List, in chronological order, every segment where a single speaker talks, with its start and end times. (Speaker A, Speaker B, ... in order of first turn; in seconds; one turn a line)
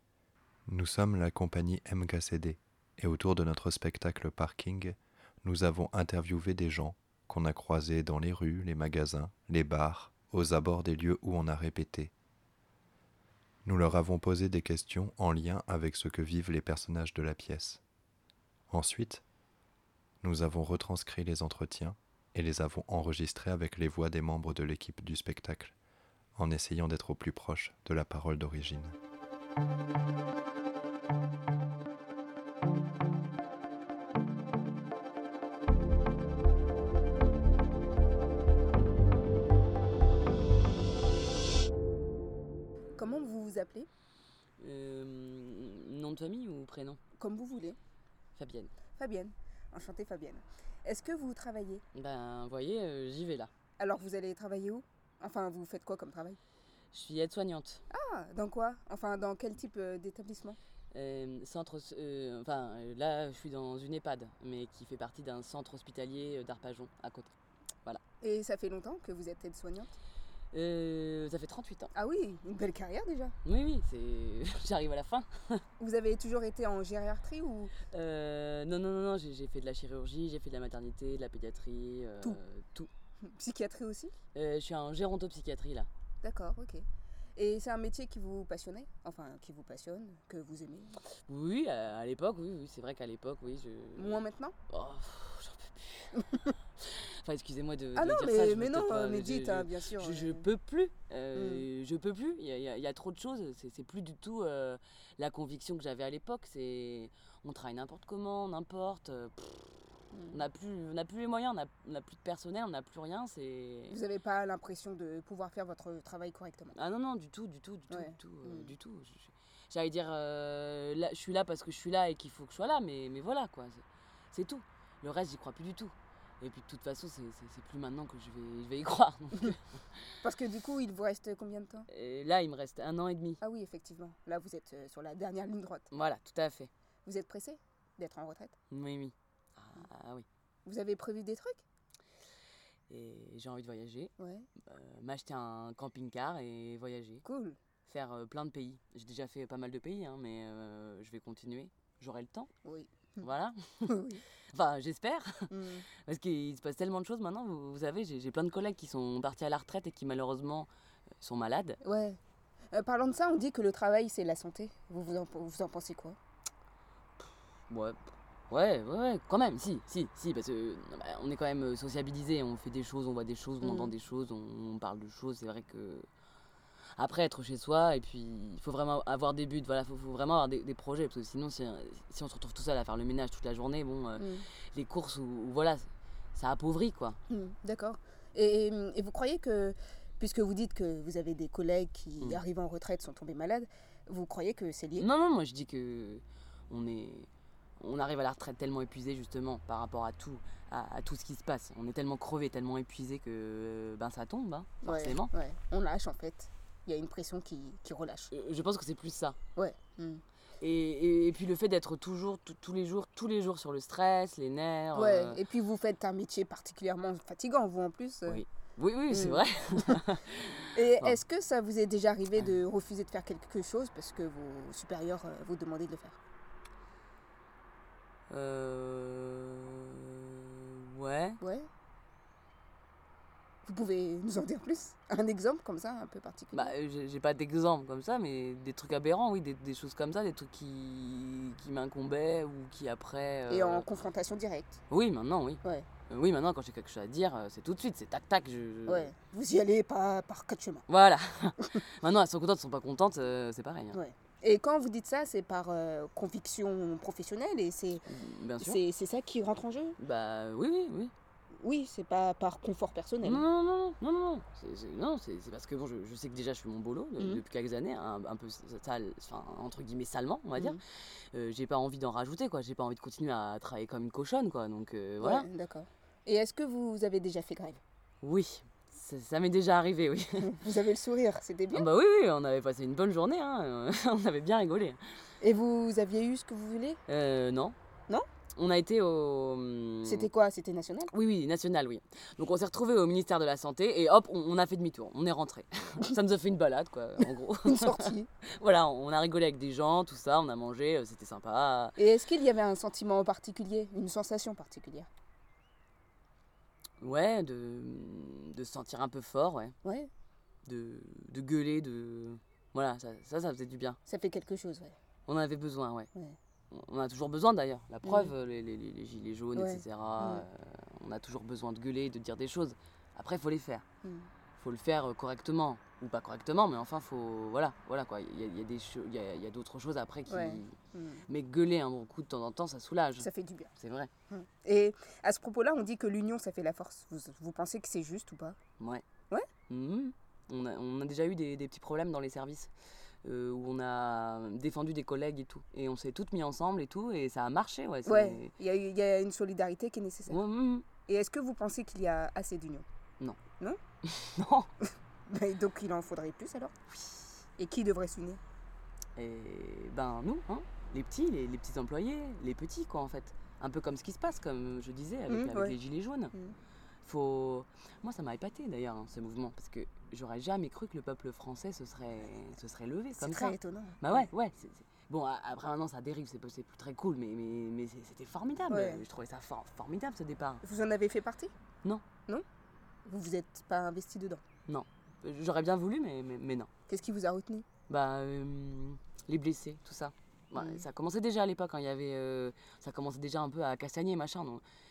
Speaker A: 0.7-12.1
Speaker A: 13.7-17.8
Speaker A: 18.7-19.2
Speaker A: 20.2-25.7
Speaker A: 26.4-29.0
Speaker B: 43.0-43.9
Speaker C: 44.6-47.0
Speaker B: 47.2-47.8
Speaker C: 48.4-48.7
Speaker B: 49.0-51.8
Speaker C: 51.9-53.5
Speaker B: 53.8-56.4
Speaker C: 56.9-57.8
Speaker B: 57.9-60.6
Speaker C: 60.9-67.3
Speaker B: 68.2-70.0
Speaker C: 70.5-71.9
Speaker B: 71.9-73.3
Speaker C: 73.4-75.6
Speaker B: 75.8-77.8
Speaker C: 77.8-82.9
Speaker B: 83.2-84.1
Speaker C: 84.3-85.9
Speaker B: 86.2-86.8
Speaker B: 87.4-91.0
Speaker C: 91.3-96.3
Speaker B: 94.0-94.5
Speaker C: 96.8-114.0
Speaker B: 98.0-100.5
Speaker B: 101.3-101.7
Speaker B: 110.1-110.4
Speaker B: 113.9-116.8
Speaker C: 116.7-130.2
Speaker B: 117.9-118.7
Speaker B: 130.2-131.9
Speaker C: 131.9-133.4
Speaker B: 133.4-135.9
Speaker C: 135.9-136.7
Speaker B: 137.1-138.6
Speaker C: 138.7-140.3
Speaker B: 140.7-141.6
Speaker C: 142.9-147.2
Speaker B: 144.2-144.5
Speaker B: 147.2-147.6
Speaker C: 147.9-152.5
Speaker B: 152.6-153.3
Speaker C: 153.2-154.0
Speaker B: 153.9-154.2
Speaker C: 154.5-161.8
Speaker B: 155.5-155.9
Speaker B: 161.8-162.2
Speaker B: 162.7-166.2
Speaker C: 167.7-168.0
Speaker C: 168.5-176.1
Speaker B: 173.6-173.9
Speaker C: 176.9-187.2
Speaker B: 184.2-184.5
Speaker B: 187.3-195.1
Speaker C: 195.0-197.3
Speaker C: 197.8-205.3
Speaker B: 204.8-208.3
Speaker C: 208.3-209.4
Speaker B: 209.6-210.2
Speaker C: 210.6-215.4
Speaker B: 214.9-218.4
Speaker C: 218.3-221.2
Speaker B: 219.1-220.0
Speaker B: 220.7-226.2
Speaker C: 228.3-231.4
Speaker B: 231.4-231.7
Speaker B: 233.7-236.7
Speaker C: 236.5-243.9
Speaker B: 243.5-244.8
Speaker C: 244.9-249.1
Speaker B: 248.9-250.8
Speaker C: 250.9-254.0
Speaker B: 253.9-258.1
Speaker C: 258.1-258.8
Speaker B: 258.6-260.0
Speaker C: 260.0-261.1
Speaker B: 261.6-263.5
Speaker C: 263.2-275.5
Speaker B: 270.6-270.8
Speaker B: 275.2-277.8
Speaker C: 278.2-280.5
Speaker B: 280.4-281.9
Speaker C: 281.7-285.0
Speaker B: 285.4-287.0
Speaker C: 287.1-287.8
Speaker C: 288.6-290.3
Speaker B: 290.0-291.1
Speaker C: 291.1-302.0
Speaker B: 297.6-298.3
Speaker B: 302.0-305.1
Speaker C: 307.0-309.8
Speaker B: 309.8-310.1
Speaker C: 310.6-314.0
Speaker B: 314.1-315.0
Speaker C: 315.3-316.1
Speaker C: 316.7-323.8
Speaker B: 318.0-318.3
Speaker B: 319.6-320.5
Speaker B: 324.0-324.3
Speaker C: 324.6-330.8
Speaker B: 330.3-331.3
Speaker C: 331.3-334.1
Speaker B: 333.2-333.7
Speaker B: 334.3-338.6
Speaker C: 338.8-339.0
Speaker C: 339.7-342.7
Speaker C: 343.2-348.5
Speaker B: 348.1-350.4
Speaker C: 350.3-350.9
Speaker B: 351.1-352.9
Speaker C: 354.0-354.7
Speaker B: 355.3-356.7
Speaker B: 357.6-358.4
Speaker C: 359.2-366.3
Speaker B: 365.3-365.8
Speaker C: 367.0-380.6
Speaker B: 373.2-374.3
Speaker B: 378.7-379.1
Speaker B: 380.6-381.5
Speaker B: 383.1-384.4
Speaker C: 384.7-386.7
Speaker B: 386.9-387.7
Speaker C: 387.9-394.6
Speaker B: 390.6-390.9